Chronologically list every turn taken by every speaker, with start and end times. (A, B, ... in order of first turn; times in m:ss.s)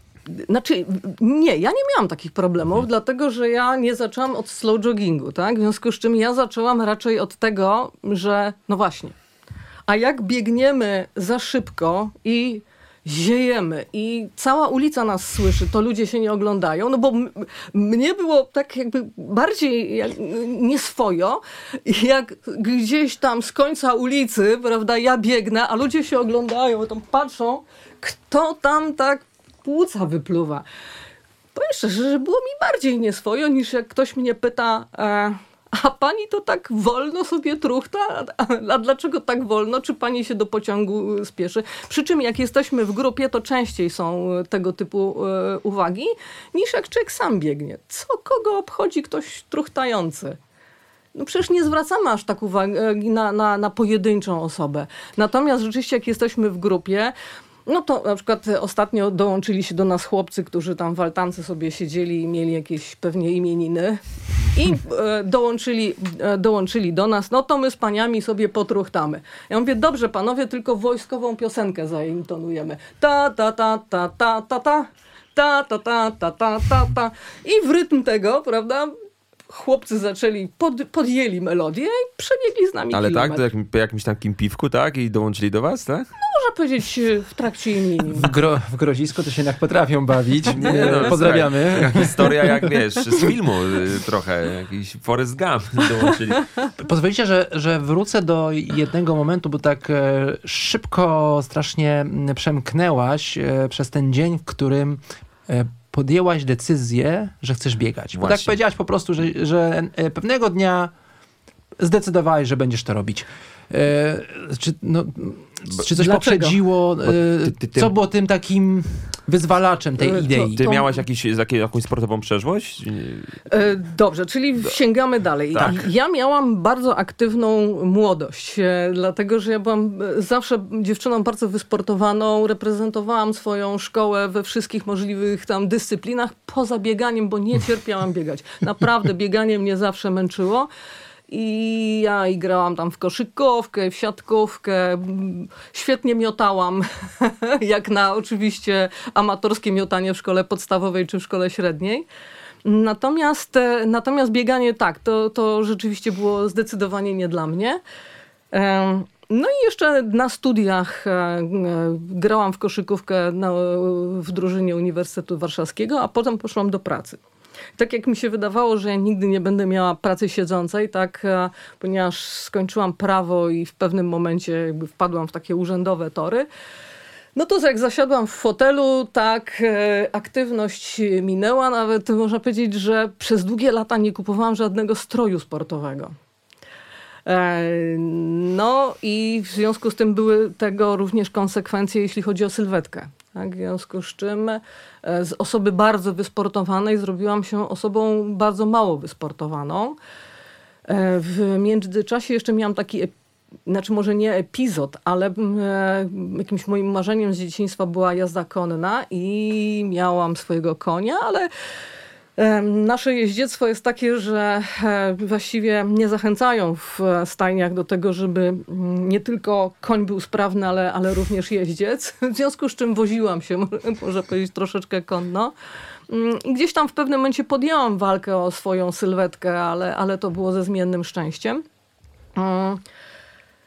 0:00.3-0:09.2 A
0:09.9-0:30.6 A
0:31.5-0:50.4 A
0:51.1-0:57.1 A
0:57.6-1:04.0 A
1:04.5-1:18.9 A
1:19.5-1:23.4 A
1:22.9-1:26.1 B
1:26.2-1:28.3 A
1:28.1-1:32.6 C
1:30.5-1:36.5 B
1:30.7-1:31.1 A
1:36.8-1:50.9 C
1:48.1-1:48.5 B
1:51.8-2:00.6 C
1:56.0-1:56.6 A
1:57.0-1:57.9 B
2:00.0-2:00.9 A
2:00.6-2:03.4 B
2:03.5-2:20.7 A
2:05.5-2:05.8 B
2:21.3-2:32.0 A
2:32.6-2:37.8 A
2:38.5-2:47.2 A
2:47.8-2:56.5 A
2:57.3-3:06.1 A
3:07.2-3:20.0 A
3:20.9-3:23.1 A
3:23.6-3:31.5 A
3:32.4-3:45.5 A
3:46.1-3:51.6 A
3:52.4-3:52.8 A